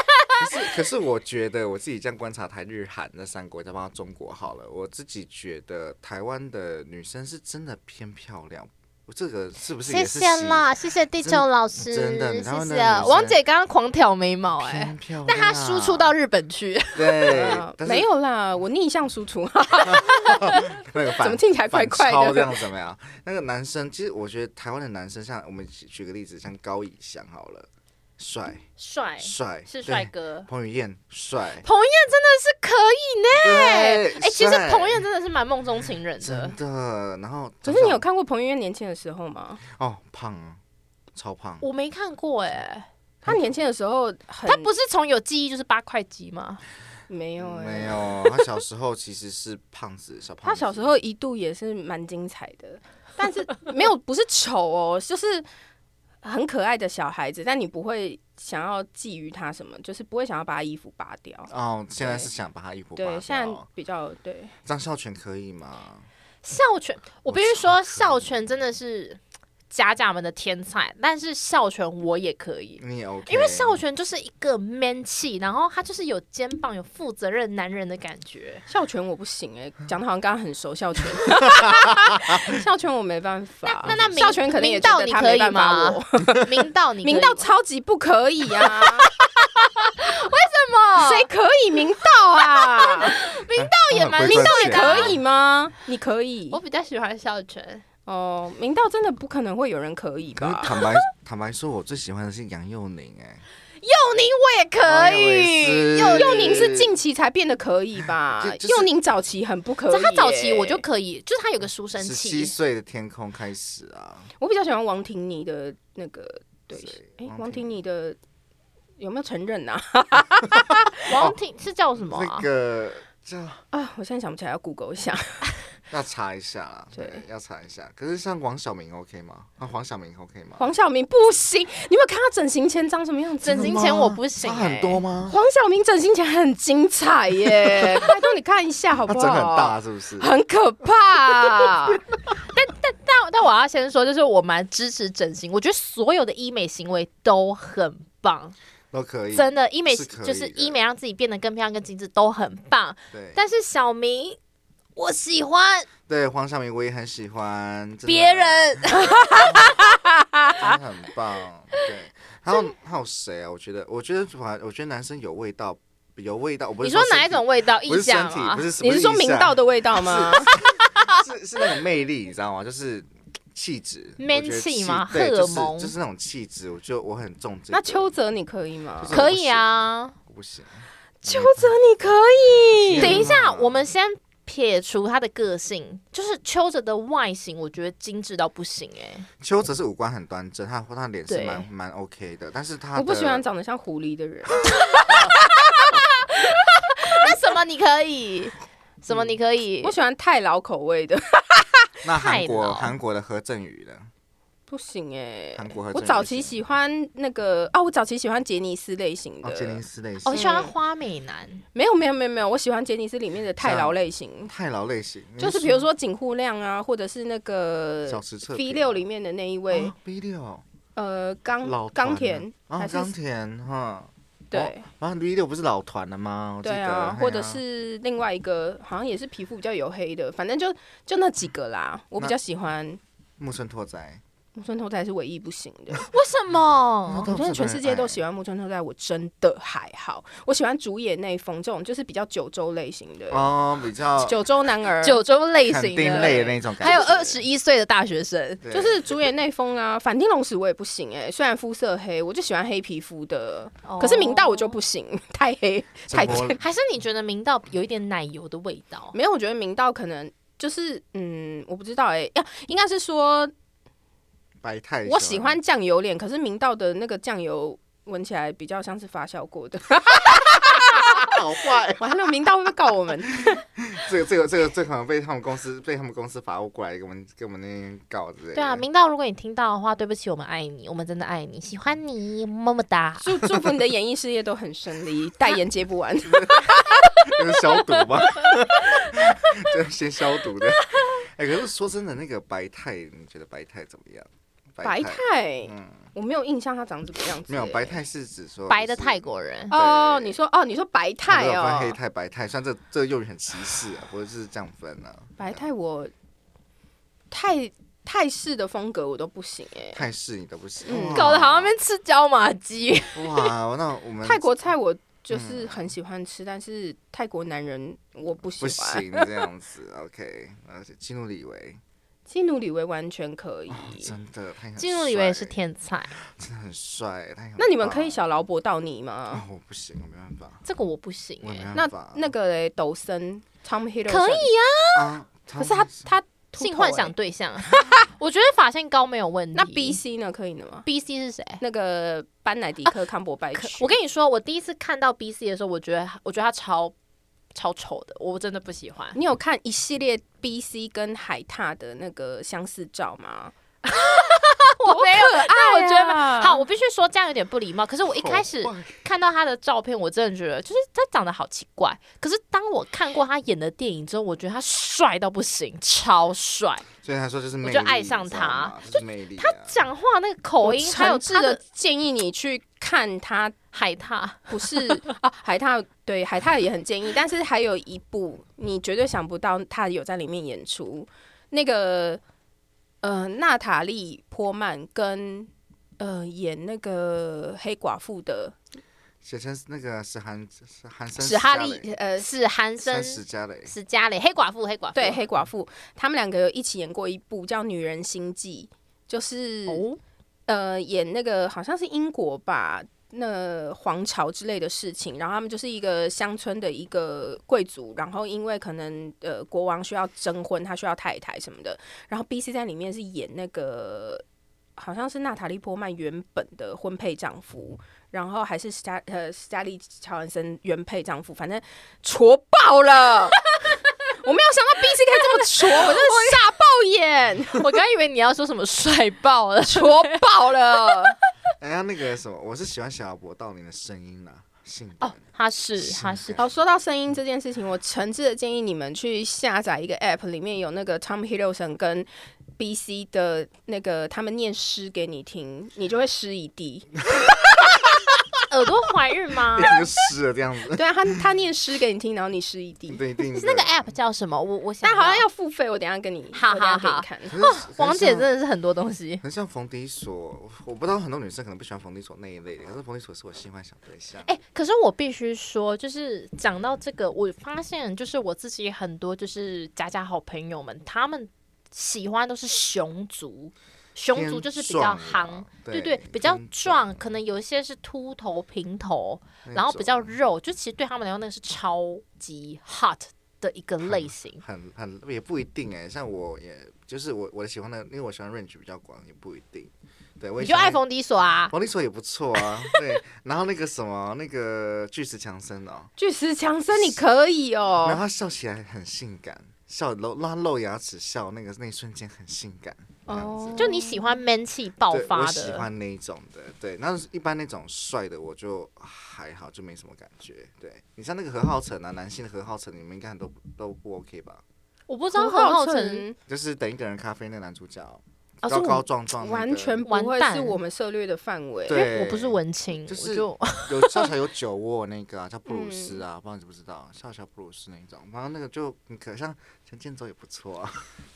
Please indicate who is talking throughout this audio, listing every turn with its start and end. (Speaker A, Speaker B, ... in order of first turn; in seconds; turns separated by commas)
Speaker A: 0.4-13.4, Speaker B: 9.8-17.6, Speaker A: 14.6-16.1, Speaker A: 16.9-18.1, Speaker C: 17.2-20.6, Speaker A: 19.9-28.6, Speaker C: 21.1-22.6, Speaker B: 28.8-30.5, Speaker A: 29.2-31.7, Speaker B: 31.6-36.5, Speaker A: 33.4-35.1, Speaker A: 36.2-38.0, Speaker C: 37.7-39.6, Speaker A: 39.6-40.6, Speaker A: 41.1-41.6, Speaker B: 41.6-42.9, Speaker C: 43.3-44.7, Speaker B: 44.5-46.6, Speaker C: 47.1-48.2, Speaker A: 47.4-50.9, Speaker C: 50.4-55.5, Speaker C: 56.2-62.3, Speaker A: 61.5-63.6, Speaker C: 63.0-64.5, Speaker A: 64.7-66.1, Speaker B: 66.4-69.2, Speaker A: 67.3-68.3, Speaker B: 69.7-78.7, Speaker A: 72.8-73.8, Speaker C: 78.7-89.1, Speaker B: 83.7-87.5, Speaker A: 83.8-84.1, Speaker B: 89.1-91.3, Speaker C: 91.0-93.2, Speaker B: 92.6-95.2, Speaker A: 93.5-95.2, Speaker C: 94.2-96.6, Speaker B: 96.5-97.8, Speaker C: 98.1-100.7, Speaker A: 100.4-103.4, Speaker B: 100.7-101.0, Speaker B: 103.8-106.7, Speaker A: 104.8-106.9, Speaker C: 106.0-110.8, Speaker A: 108.4-108.9, Speaker B: 109.9-112.5, Speaker A: 112.0-114.3, Speaker C: 114.4-118.2, Speaker A: 116.7-117.7, Speaker C: 119.0-121.1, Speaker B: 121.1-122.5, Speaker A: 121.1-121.4, Speaker A: 122.0-123.6, Speaker C: 123.7-125.4, Speaker A: 125.9-130.7, Speaker C: 126.9-127.2, Speaker C: 130.6-133.9, Speaker B: 133.4-135.0, Speaker A: 133.4-135.4, Speaker C: 135.3-142.0, Speaker A: 139.1-140.3, Speaker B: 142.4-148.6, Speaker A: 148.9-150.8, Speaker B: 149.3-154.4, Speaker A: 153.1-153.4, Speaker B: 155.0-155.9, Speaker A: 156.1-159.8, Speaker B: 158.1-159.8, Speaker C: 159.1-159.5, Speaker A: 160.5-178.1, Speaker B: 166.8-168.7, Speaker C: 168.8-170.6, Speaker B: 170.5-171.2, Speaker B: 174.2-175.9, Speaker C: 177.7-179.2, Speaker A: 179.0-181.8, Speaker B: 179.1-180.2, Speaker C: 181.2-183.3, Speaker A: 182.9-183.8, Speaker B: 183.0-189.3, Speaker A: 189.4-193.4, Speaker B: 191.3-191.7, Speaker C: 192.9-195.2, Speaker B: 194.7-199.9, Speaker A: 194.7-195.3, Speaker C: 199.8-201.9, Speaker A: 202.0-204.1, Speaker B: 202.1-202.9, Speaker C: 204.7-210.7, Speaker A: 205.6-206.6, Speaker A: 209.4-210.5, Speaker B: 210.2-211.6, Speaker C: 211.7-214.5, Speaker A: 213.6-215.9, Speaker C: 215.4-219.9, Speaker A: 218.1-219.0, Speaker A: 219.7-220.6, Speaker C: 221.0-223.1, Speaker A: 221.6-227.6, Speaker C: 224.5-224.9, Speaker C: 226.6-233.0, Speaker A: 233.4-234.2, Speaker C: 234.6-236.1, Speaker B: 236.0-237.3, Speaker A: 237.1-238.2, Speaker C: 237.2-243.5, Speaker A: 243.3-244.5, Speaker C: 244.2-245.2, Speaker B: 245.0-248.6, Speaker A: 245.7-247.4, Speaker C: 246.1-246.4, Speaker A: 248.6-249.1, Speaker C: 248.7-256.6, Speaker B: 253.8-254.8, Speaker A: 256.1-256.6, Speaker B: 256.4-259.1, Speaker C: 259.1-263.5, Speaker A: 264.6-265.6, Speaker C: 265.1-271.3, Speaker A: 270.5-272.1, Speaker C: 272.0-273.6, Speaker A: 273.4-278.8, Speaker B: 278.6-283.3, Speaker C: 283.2-287.0, Speaker A: 286.3-286.6, Speaker A: 287.2-296.1, Speaker C: 294.8-298.0, Speaker A: 297.5-300.4, Speaker B: 298.7-299.8, Speaker C: 299.7-302.0, Speaker A: 301.3-305.6, Speaker C: 305.4-306.1, Speaker C: 307.3-310.0, Speaker A: 309.9-311.8, Speaker C: 310.9-311.3, Speaker B: 310.9-313.5, Speaker A: 313.1-314.5, Speaker C: 314.2-319.2, Speaker A: 315.3-315.9, Speaker A: 318.6-321.8, Speaker C: 322.3-324.1, Speaker A: 323.7-325.6, Speaker B: 324.8-326.2, Speaker A: 326.2-328.2, Speaker C: 327.6-329.4, Speaker A: 329.3-330.6, Speaker B: 330.6-331.7, Speaker A: 331.4-332.3, Speaker C: 331.8-334.5, Speaker B: 334.1-335.1, Speaker A: 334.9-336.1, Speaker C: 335.6-337.1, Speaker B: 336.6-340.0, Speaker C: 337.7-338.0, Speaker C: 339.5-340.9, Speaker B: 340.9-341.6, Speaker C: 341.6-343.9, Speaker B: 343.6-346.9, Speaker B: 347.5-349.2, Speaker C: 349.1-356.7, Speaker B: 353.9-366.9, Speaker A: 358.1-359.0, Speaker A: 367.0-369.8, Speaker B: 367.6-368.8, Speaker B: 369.4-371.6, Speaker C: 370.6-373.6, Speaker B: 373.7-375.0, Speaker C: 374.5-382.2, Speaker C: 383.0-388.6, Speaker A: 389.2-391.9, Speaker C: 391.2-392.3, Speaker B: 392.2-395.2, Speaker A: 392.8-393.7, Speaker C: 394.9-399.8, Speaker B: 399.7-400.0, Speaker C: 400.5-414.2, Speaker C: 414.8-427.6, Speaker B: 425.2-426.4, Speaker B: 427.5-431.3, Speaker C: 429.7-431.2, Speaker A: 431.6-435.2, Speaker B: 435.0-436.4, Speaker A: 435.8-436.6, Speaker C: 436.4-446.9, Speaker B: 448.5-449.8, Speaker A: 449.6-450.9, Speaker C: 450.7-453.0, Speaker A: 452.9-453.9, Speaker B: 453.3-455.3, Speaker C: 454.8-457.3, Speaker B: 456.3-459.2, Speaker A: 457.3-458.3, Speaker A: 459.2-464.4, Speaker B: 464.3-484.4, Speaker A: 474.1-477.1, Speaker A: 479.4-480.1, Speaker A: 483.8-490.8, Speaker B: 490.4-491.5, Speaker A: 491.5-495.9, Speaker B: 492.5-492.8, Speaker C: 496.0-498.0, Speaker A: 497.8-503.8, Speaker C: 503.1-504.0, Speaker B: 503.6-505.7, Speaker A: 504.9-514.4, Speaker B: 514.9-516.1, Speaker C: 515.1-516.2, Speaker A: 516.3-519.8, Speaker B: 518.4-518.9, Speaker C: 519.2-521.8, Speaker B: 519.9-520.6, Speaker A: 521.7-530.9, Speaker B: 521.7-524.1, Speaker C: 525.5-526.0